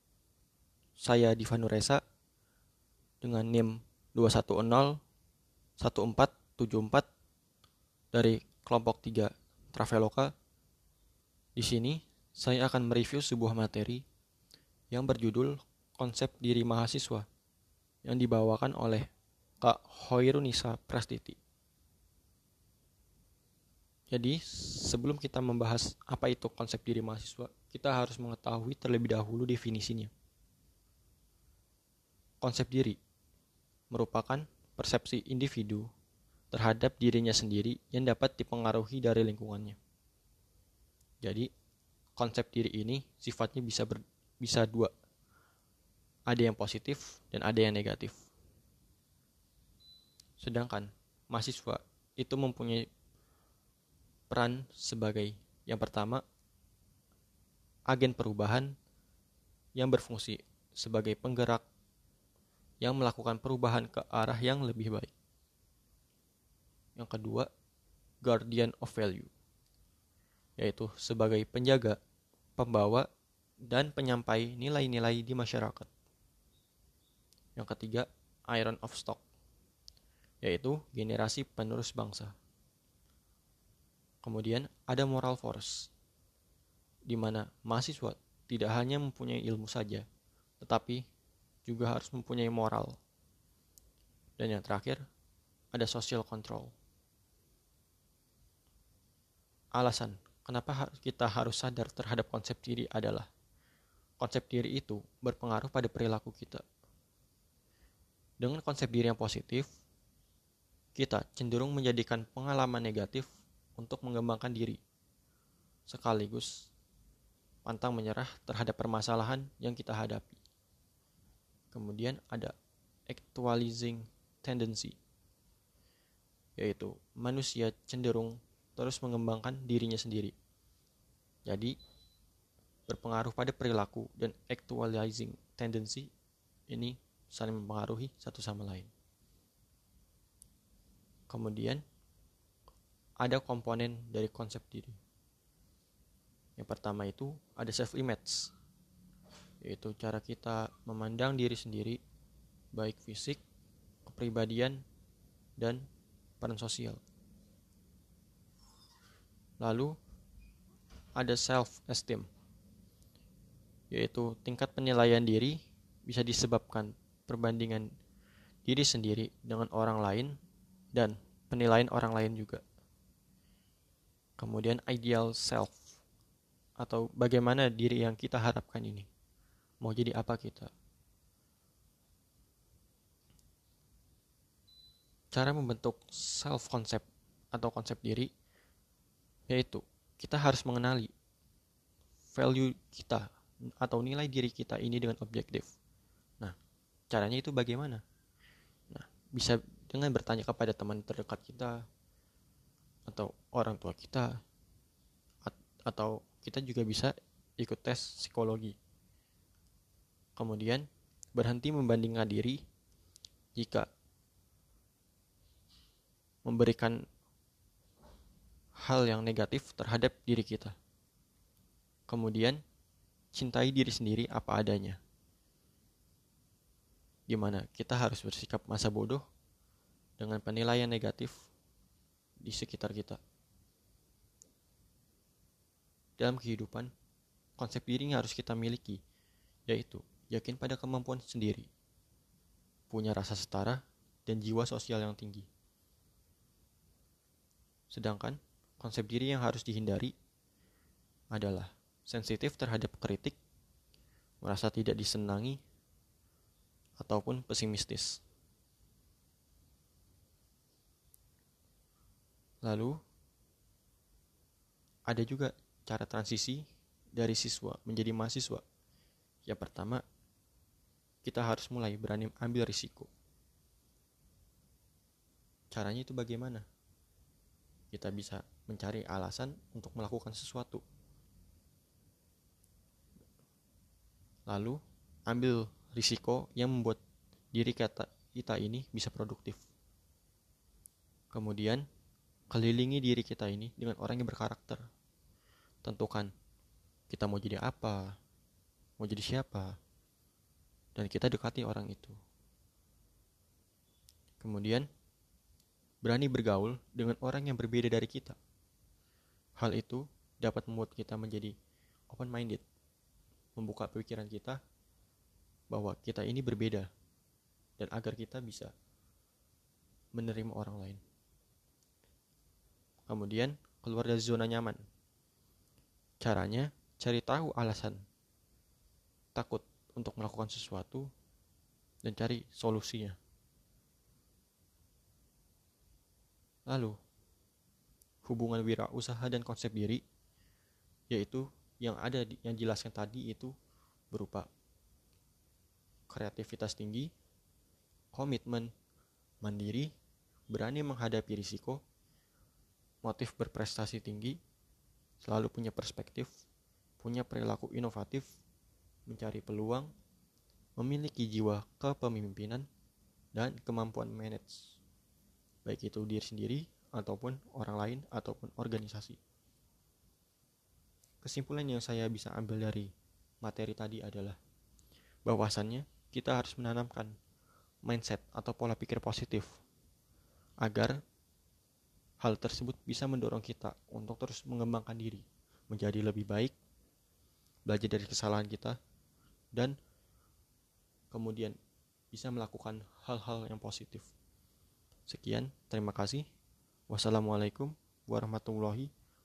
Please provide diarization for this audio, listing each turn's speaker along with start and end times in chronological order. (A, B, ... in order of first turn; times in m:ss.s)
0:01.0-0:02.0 A
0:03.2-0:05.0 A
0:05.8-0:07.1 A
0:08.1-0:10.3 A
0:11.6-0:14.0 A
0:14.9-0:17.3 A
0:18.0-0:19.1 A
0:19.6-0:21.4 A
0:24.1-0:30.1 A
0:32.4-0:33.0 A
0:33.9-0:35.9 A
0:36.5-0:39.8 A
0:41.2-0:41.5 A
0:42.2-0:44.9 A
0:46.3-0:48.2 A
0:50.4-0:52.8 A
0:54.3-0:56.2 A
0:57.9-0:58.7 A
0:59.8-1:01.6 A
1:02.8-1:05.1 A
1:07.0-1:07.5 A
1:08.2-1:09.3 A
1:10.6-1:12.0 A
1:12.6-1:13.1 A
1:13.7-1:15.9 A
1:17.6-1:19.2 A
1:20.4-1:22.3 A
1:24.2-1:25.9 A
1:27.1-1:30.0 A
1:30.6-1:31.0 A
1:31.7-1:33.0 A
1:34.4-1:35.0 A
1:35.7-1:36.7 A
1:39.8-1:43.3 A
1:44.2-1:46.6 A
1:48.4-1:49.7 A
1:50.9-1:54.8 A
1:55.9-1:56.7 A
1:57.7-2:00.4 A
2:01.7-2:02.5 A
2:03.1-2:05.0 A
2:06.6-2:10.3 A
2:11.4-2:11.8 A
2:12.9-2:16.1 A
2:16.7-2:18.9 A
2:21.3-2:21.8 A
2:23.2-2:25.0 A
2:26.6-2:28.5 A
2:29.6-2:32.0 A
2:32.7-2:33.4 A
2:34.1-2:34.8 A
2:35.6-2:35.8 A
2:36.4-2:37.0 A
2:39.6-2:39.9 A
2:41.2-2:42.2 A
2:43.9-2:47.9 A
2:48.7-2:50.4 A
2:50.9-2:52.6 A
2:54.4-2:55.8 A
2:56.8-2:59.1 A
2:59.8-3:00.7 A
3:05.3-3:08.3 A
3:09.5-3:11.1 A
3:12.3-3:15.7 A
3:17.1-3:18.0 A
3:18.9-3:21.8 A
3:23.1-3:24.3 A
3:25.4-3:28.8 A
3:30.4-3:32.6 A
3:33.5-3:33.9 A
3:36.4-3:37.0 A
3:38.8-3:40.8 A
3:42.1-3:42.6 A
3:43.3-3:45.0 A
3:47.3-3:49.2 A
3:50.2-3:51.5 A
3:52.4-3:53.2 A
3:56.2-3:56.9 A
3:57.6-3:59.0 A
3:59.7-4:01.7 A
4:02.9-4:05.5 A
4:07.9-4:10.1 A
4:11.3-4:13.4 A
4:14.4-4:15.6 A
4:17.0-4:18.2 A
4:22.6-4:22.9 A
4:25.1-4:26.6 A
4:27.2-4:28.6 A
4:29.4-4:30.0 A
4:31.2-4:33.1 A
4:35.7-4:36.6 A
4:37.9-4:40.8 A
4:44.5-4:47.0 A
4:47.5-4:49.6 A
4:51.3-4:51.8 A
4:52.5-4:54.8 A
4:55.8-4:56.3 A
4:57.1-4:58.2 A
4:59.0-4:59.8 A
5:00.9-5:02.2 A
5:04.4-5:04.9 A
5:06.0-5:08.4 A
5:09.6-5:11.5 A
5:12.1-5:12.6 A
5:13.6-5:14.6 A
5:15.7-5:16.9 A
5:17.8-5:18.7 A
5:20.1-5:21.0 A
5:23.1-5:24.8 A
5:26.2-5:28.0 A
5:29.3-5:31.1 A
5:32.0-5:33.2 A
5:36.7-5:36.9 A
5:38.2-5:40.0 A
5:41.1-5:43.5 A
5:44.1-5:44.5 A
5:46.1-5:47.1 A
5:48.1-5:48.7 A
5:49.4-5:49.9 A
5:50.5-5:51.8 A
5:53.0-5:54.4 A
5:55.2-5:56.3 A
5:57.0-5:58.3 A
5:59.1-5:59.9 A
6:00.8-6:02.7 A
6:03.3-6:04.8 A
6:05.6-6:09.2 A
6:11.2-6:12.9 A
6:13.4-6:14.4 A
6:15.2-6:17.1 A
6:17.8-6:19.6 A
6:20.6-6:21.0 A
6:22.2-6:26.6 A
6:27.6-6:28.8 A
6:31.1-6:31.6 A
6:32.1-6:34.1 A
6:35.1-6:36.2 A
6:36.9-6:38.9 A